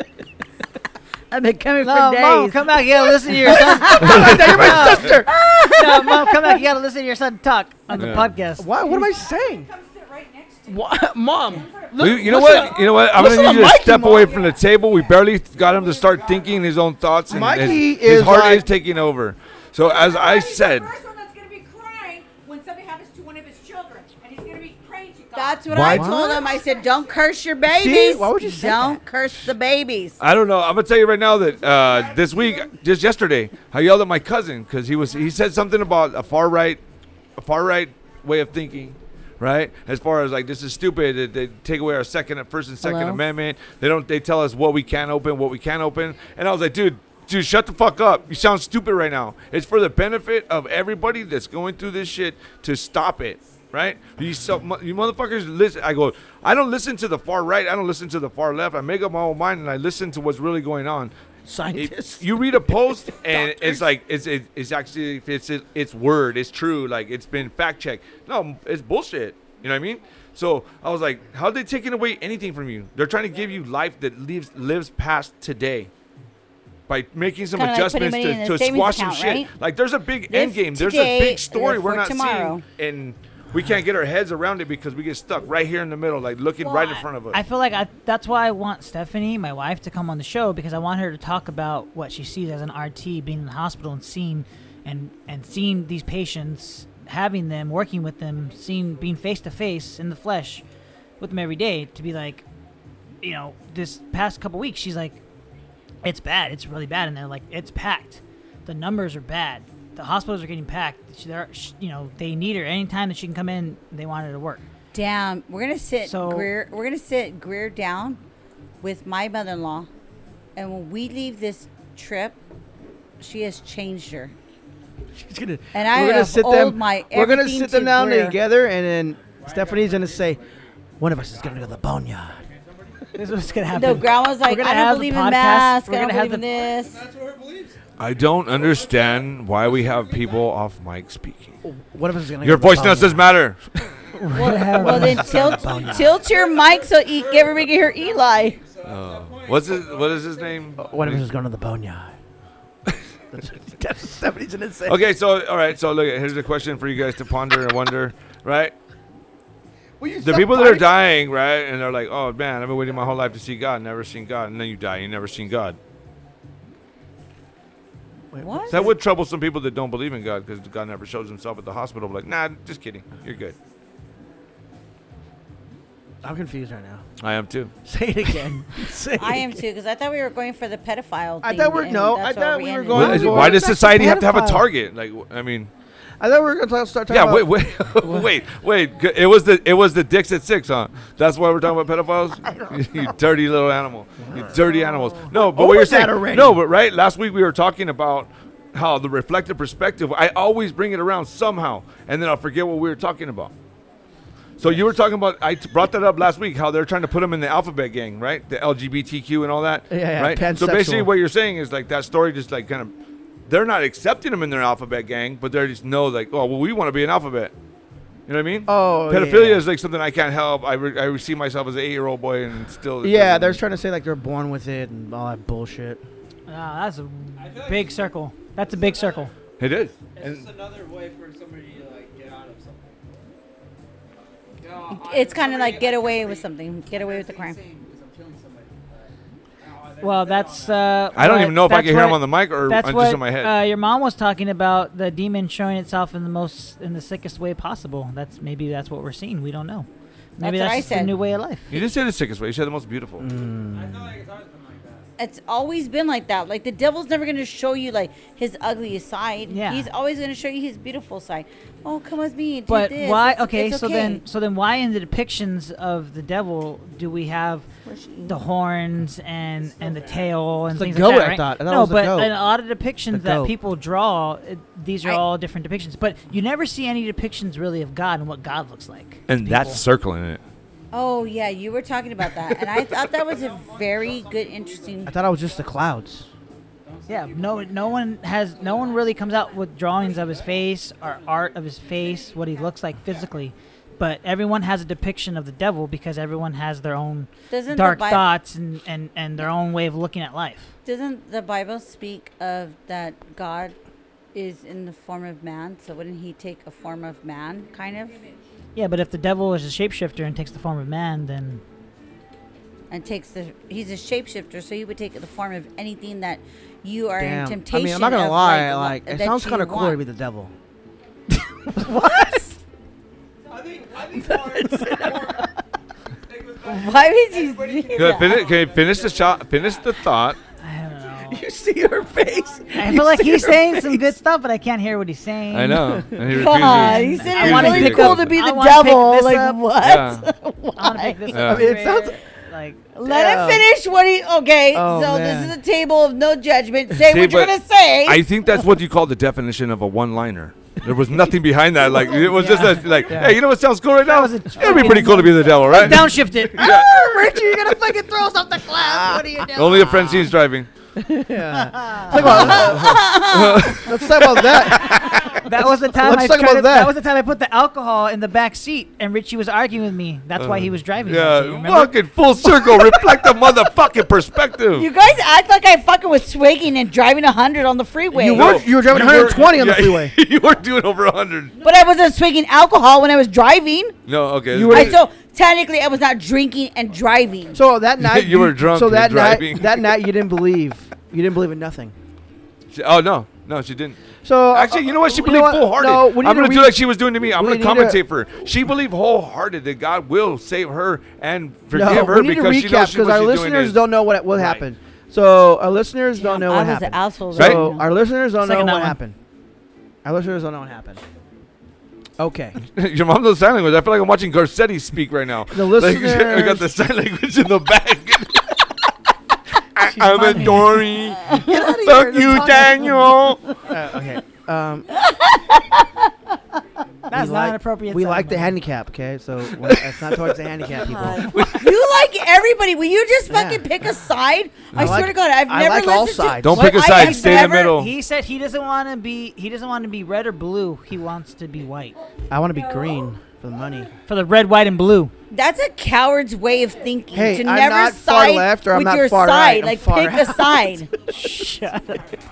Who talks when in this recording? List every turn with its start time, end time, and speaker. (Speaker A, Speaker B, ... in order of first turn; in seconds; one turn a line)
Speaker A: 1.3-4.5
Speaker B: 1.8-5.2
Speaker C: 3.4-5.5
Speaker D: 4.2-4.8
Speaker A: 5.0-6.5
Speaker B: 5.7-9.1
Speaker D: 8.0-8.3
Speaker C: 8.6-9.7
Speaker E: 8.9-15.2
Speaker C: 10.7-14.4
Speaker D: 12.0-20.9
Speaker F: 15.7-16.7
Speaker C: 17.3-18.6
Speaker E: 19.8-27.3
Speaker A: 25.3-30.2
Speaker D: 25.7-26.1
Speaker C: 25.8-26.4
Speaker C: 27.6-29.0
Speaker D: 30.2-36.8
Speaker E: 31.6-32.6
Speaker D: 37.4-61.1
Speaker A: 42.8-43.2
Speaker C: 61.5-63.9
Speaker D: 61.7-75.9
Speaker D: 76.9-87.4
Speaker A: 77.5-79.5
Speaker A: 80.3-82.6
Speaker E: 86.6-87.0
Speaker B: 87.3-100.6
Speaker B: 101.2-102.4
Speaker B: 103.2-105.2
Speaker B: 106.0-114.6
Speaker A: 114.9-118.2
Speaker B: 116.0-116.5
Speaker A: 118.8-119.9
Speaker A: 120.5-122.4
Speaker A: 123.2-124.3
Speaker C: 125.1-130.4
Speaker A: 125.7-128.4
Speaker F: 129.2-133.8
Speaker C: 131.0-132.4
Speaker B: 133.2-136.4
Speaker A: 133.7-137.0
Speaker F: 136.5-137.8
Speaker D: 138.0-141.6
Speaker F: 138.4-140.5
Speaker C: 141.6-143.4
Speaker D: 142.4-143.6
Speaker B: 144.2-145.5
Speaker C: 144.3-146.2
Speaker A: 144.3-148.6
Speaker F: 145.4-151.2
Speaker D: 148.8-151.2
Speaker C: 150.8-152.1
Speaker C: 153.3-155.0
Speaker D: 154.8-158.7
Speaker C: 160.0-161.0
Speaker D: 160.2-165.8
Speaker C: 168.3-168.9
Speaker A: 168.4-168.9
Speaker D: 168.7-173.6
Speaker C: 176.2-177.0
Speaker D: 177.2-177.7
Speaker C: 177.8-179.6
Speaker A: 179.2-183.6
Speaker C: 181.4-184.6
Speaker D: 182.9-185.7
Speaker C: 186.2-188.3
Speaker D: 187.1-203.5
Speaker C: 194.2-194.6
Speaker C: 195.3-196.6
Speaker D: 204.6-212.9
Speaker C: 204.6-204.9
Speaker C: 209.9-211.1
Speaker D: 213.4-217.5
Speaker D: 218.3-223.6
Speaker C: 218.7-219.6
Speaker C: 223.0-226.0
Speaker B: 226.5-229.3
Speaker F: 227.3-229.3
Speaker D: 229.6-230.5
Speaker F: 230.1-233.2
Speaker F: 234.6-241.2
Speaker A: 234.9-237.6
Speaker B: 240.0-251.7
Speaker D: 241.1-243.5
Speaker A: 250.4-251.1
Speaker D: 251.7-253.2
Speaker C: 253.2-254.2
Speaker F: 253.7-255.1
Speaker A: 255.2-264.2
Speaker B: 259.5-259.9
Speaker B: 262.7-267.6
Speaker A: 267.8-268.4
Speaker B: 268.2-279.8
Speaker F: 269.5-270.5
Speaker C: 270.7-272.4
Speaker C: 273.1-273.5
Speaker D: 279.3-280.4
Speaker A: 280.9-285.1
Speaker F: 283.2-285.9
Speaker C: 285.1-286.3
Speaker F: 286.8-293.3
Speaker B: 287.1-300.7
Speaker A: 297.5-298.3
Speaker A: 300.8-303.7
Speaker A: 304.3-308.2
Speaker E: 308.1-308.4
Speaker B: 308.8-311.6
Speaker A: 312.9-320.0
Speaker C: 317.1-320.5
Speaker C: 321.7-322.4
Speaker A: 321.8-322.6
Speaker F: 323.5-325.5
Speaker C: 324.2-325.5
Speaker F: 326.2-330.0
Speaker A: 326.6-328.5
Speaker D: 327.9-330.4
Speaker B: 330.6-331.4
Speaker C: 331.2-334.1
Speaker B: 332.7-339.6
Speaker D: 335.5-338.4
Speaker A: 336.3-341.3
Speaker D: 339.8-340.3
Speaker B: 340.8-342.9
Speaker D: 341.3-341.7
Speaker C: 341.4-342.2
Speaker A: 342.9-348.6
Speaker C: 343.0-343.6
Speaker C: 344.7-345.5
Speaker D: 347.0-357.5
Speaker B: 352.1-353.2
Speaker C: 352.9-353.4
Speaker B: 354.0-360.1
Speaker C: 356.5-357.8
Speaker C: 358.6-360.3
Speaker D: 359.5-360.7
Speaker C: 360.9-363.0
Speaker B: 361.6-362.7
Speaker A: 362.2-363.8
Speaker D: 362.2-365.0
Speaker C: 363.7-366.9
Speaker B: 365.1-371.9
Speaker D: 370.4-374.9
Speaker A: 374.7-378.6
Speaker C: 378.1-380.1
Speaker D: 378.3-381.5
Speaker E: 381.6-381.9
Speaker A: 381.6-383.9
Speaker D: 384.1-385.0
Speaker C: 384.5-385.0
Speaker A: 384.6-387.6
Speaker C: 387.5-391.9
Speaker D: 388.0-390.0
Speaker D: 392.7-394.0
Speaker C: 394.2-398.0
Speaker D: 394.5-404.6
Speaker C: 401.7-409.1
Speaker A: 406.1-407.9
Speaker D: 407.3-407.6
Speaker B: 408.4-409.0
Speaker C: 410.0-411.0
Speaker C: 412.2-412.6
Speaker D: 412.7-418.9
Speaker C: 415.5-416.7
Speaker D: 419.7-423.4
Speaker B: 419.8-420.8
Speaker C: 421.4-423.1
Speaker C: 423.6-424.9
Speaker A: 424.9-426.1
Speaker B: 427.1-428.6
Speaker C: 427.1-431.3
Speaker D: 429.7-430.1
Speaker B: 431.0-431.5
Speaker D: 431.1-431.7
Speaker A: 431.4-437.8
Speaker C: 433.3-433.7
Speaker D: 434.7-435.0
Speaker C: 434.7-436.7
Speaker D: 436.4-437.9
Speaker B: 436.6-441.9
Speaker C: 442.3-443.9
Speaker B: 444.1-445.1
Speaker A: 445.3-450.9
Speaker C: 447.1-450.8
Speaker B: 451.1-452.1